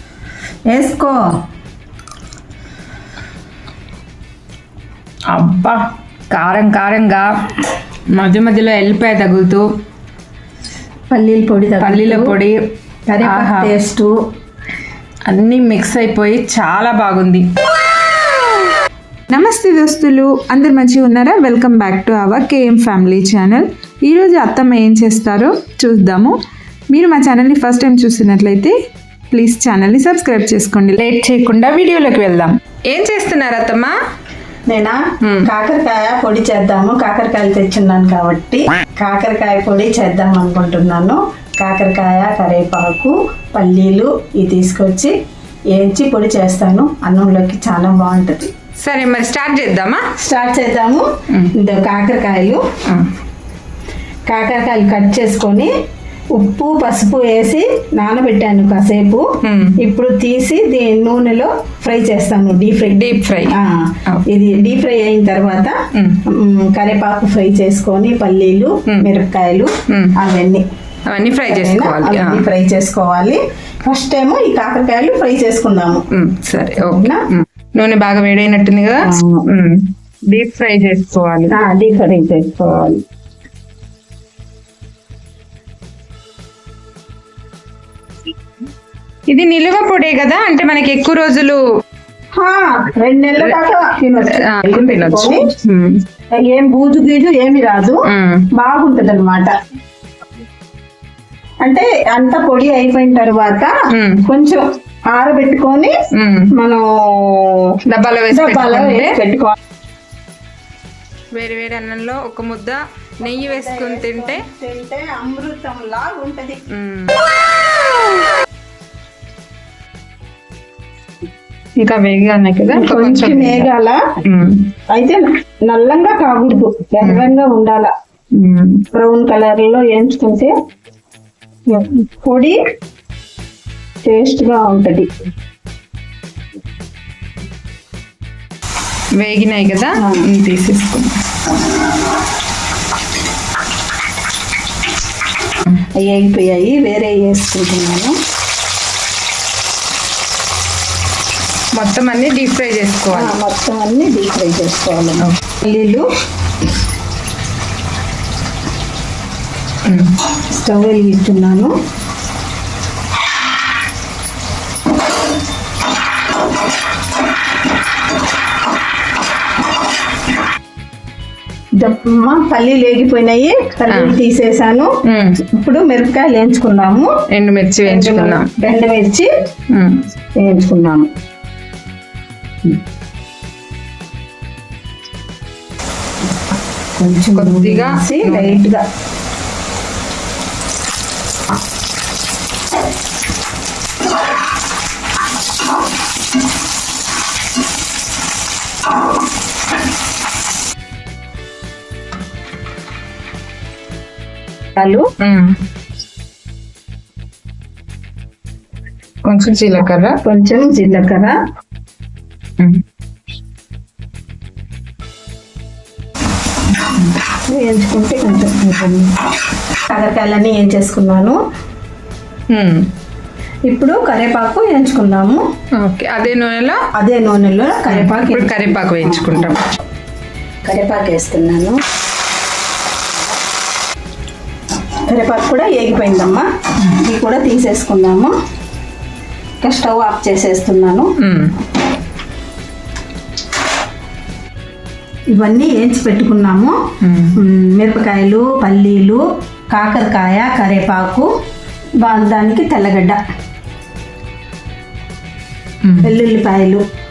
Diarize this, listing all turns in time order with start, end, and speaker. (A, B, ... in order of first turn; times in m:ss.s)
0:00.7-0:01.2 A
0:05.3-0:07.3 B
0:08.1-0:09.7 B
0:11.1-0:12.4 A
0:11.8-0:12.6 B
0:13.1-0:14.1 A
0:13.2-0:13.7 B
0:15.3-0:17.5 B
0:19.3-0:26.3 C
0:19.3-0:26.3 B
0:27.0-0:28.7 C
0:27.1-0:28.7 B
0:29.3-0:31.3 C
0:29.4-0:33.9 B
0:34.7-0:45.1 A
0:35.2-0:35.5 B
0:45.7-0:48.5 A
0:48.8-0:50.0 B
0:50.2-0:52.6 A
0:54.3-0:55.7 A
0:56.4-0:59.2 A
0:59.4-0:59.8 B
0:59.8-1:10.6 A
1:02.9-1:04.2 B
1:05.9-1:06.2 B
1:09.9-1:10.2 B
1:11.1-1:12.5 B
1:11.5-1:16.0 A
1:16.1-1:21.6 B
1:16.8-1:17.2 A
1:19.0-1:19.5 A
1:21.5-1:23.0 A
1:29.3-1:31.6 B
1:32.4-1:35.4 A
1:34.2-1:36.0 B
1:36.5-1:38.0 A
1:38.1-1:38.5 B
1:38.5-1:39.5 A
1:41.6-1:43.7 A
1:43.9-1:44.3 B
1:44.3-1:45.9 A
1:46.1-1:46.5 B
1:46.5-1:47.8 A
1:47.9-1:49.2 B
1:48.3-1:49.6 A
1:51.4-1:54.5 B
1:53.2-1:56.7 A
1:56.7-1:57.2 B
2:01.8-2:03.7 B
2:02.7-2:04.0 A
2:04.2-2:04.7 B
2:04.9-2:07.9 A
2:08.4-2:08.8 B
2:08.9-2:10.5 A
2:11.7-2:12.6 A
2:14.0-2:15.1 A
2:19.2-2:21.1 B
2:20.0-2:20.3 A
2:26.0-2:28.2 A
2:31.8-2:33.4 B
2:33.1-2:36.1 A
2:39.8-2:40.2 B
2:40.6-2:41.7 A
2:51.8-2:54.9 A
2:53.9-2:54.2 B
2:55.1-2:55.4 B
2:55.4-2:57.1 A
2:57.3-2:58.5 B
2:57.9-2:59.3 A
2:59.7-3:00.0 B
3:00.4-3:01.1 A
3:07.0-3:08.8 A
3:07.4-3:08.6 B
3:25.2-3:25.6 B
3:29.3-3:30.2 B
3:30.2-3:31.4 A
3:37.5-3:39.1 A
3:39.9-3:41.4 A
3:42.5-3:42.9 B
3:43.7-3:45.4 A
3:45.8-3:46.8 B
3:47.0-3:49.6 A
3:47.9-3:49.6 B
3:50.6-3:51.8 A
3:55.1-3:58.3 A
3:59.6-4:01.1 A
4:01.2-4:01.5 B
4:05.4-4:06.8 A
4:07.0-4:07.4 B
4:07.4-4:11.3 A
4:12.0-4:13.2 A
4:15.8-4:16.1 B
4:16.0-4:16.8 A